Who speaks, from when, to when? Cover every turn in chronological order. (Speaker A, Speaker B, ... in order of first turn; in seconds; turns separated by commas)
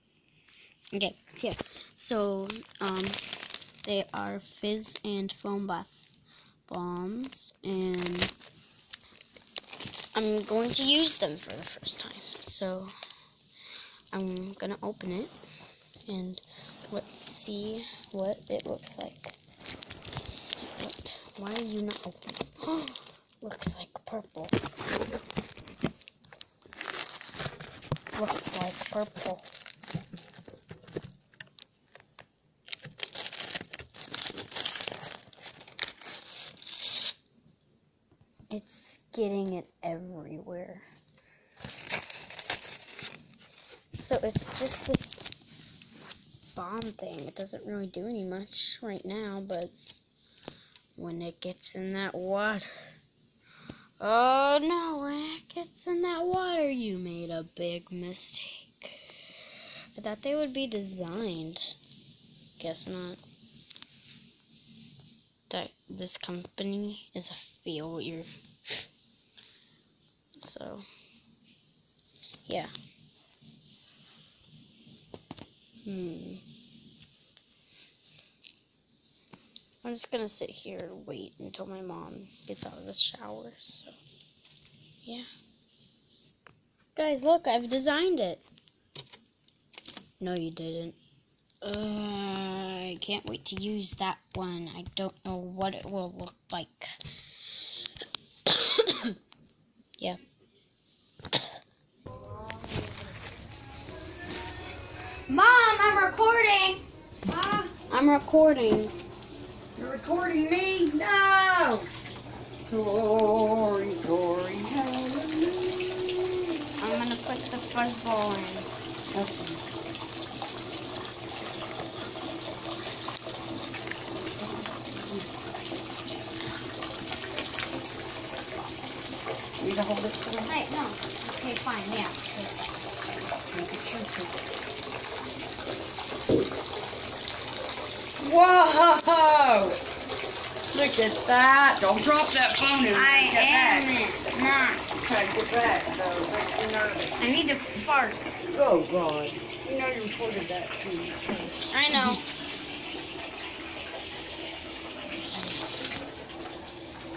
Speaker A: 0.9-3.2, Speaker A: 3.8-6.1, Speaker A: 6.7-8.3, Speaker A: 10.1-12.9, Speaker A: 14.1-15.3, Speaker A: 16.1-19.4, Speaker A: 20.6-24.5, Speaker A: 28.1-29.5, Speaker A: 38.5-40.8, Speaker A: 43.9-45.2, Speaker A: 46.5-49.7, Speaker A: 51.0-52.7, Speaker A: 54.0-59.0, Speaker A: 59.9-61.8, Speaker A: 62.6-63.2, Speaker A: 65.5-68.3, Speaker A: 70.3-70.8, Speaker A: 72.5-72.7, Speaker A: 75.8-76.4, Speaker A: 79.8-83.9, Speaker A: 86.9-88.4, Speaker A: 90.2-91.0, Speaker A: 91.6-96.9, Speaker A: 98.5-99.2, Speaker A: 105.3-106.8, Speaker B: 107.3-107.7, Speaker A: 107.9-108.9, Speaker B: 109.8-111.9, Speaker B: 112.6-117.0, Speaker A: 116.8-118.7, Speaker B: 119.1-119.6, Speaker B: 124.1-125.3, Speaker B: 129.6-130.5, Speaker A: 130.4-132.6, Speaker B: 133.5-134.3, Speaker B: 138.2-139.8, Speaker B: 140.7-143.9, Speaker A: 142.9-144.8, Speaker B: 145.0-147.2, Speaker A: 147.2-148.4, Speaker B: 148.5-152.2, Speaker A: 151.7-152.2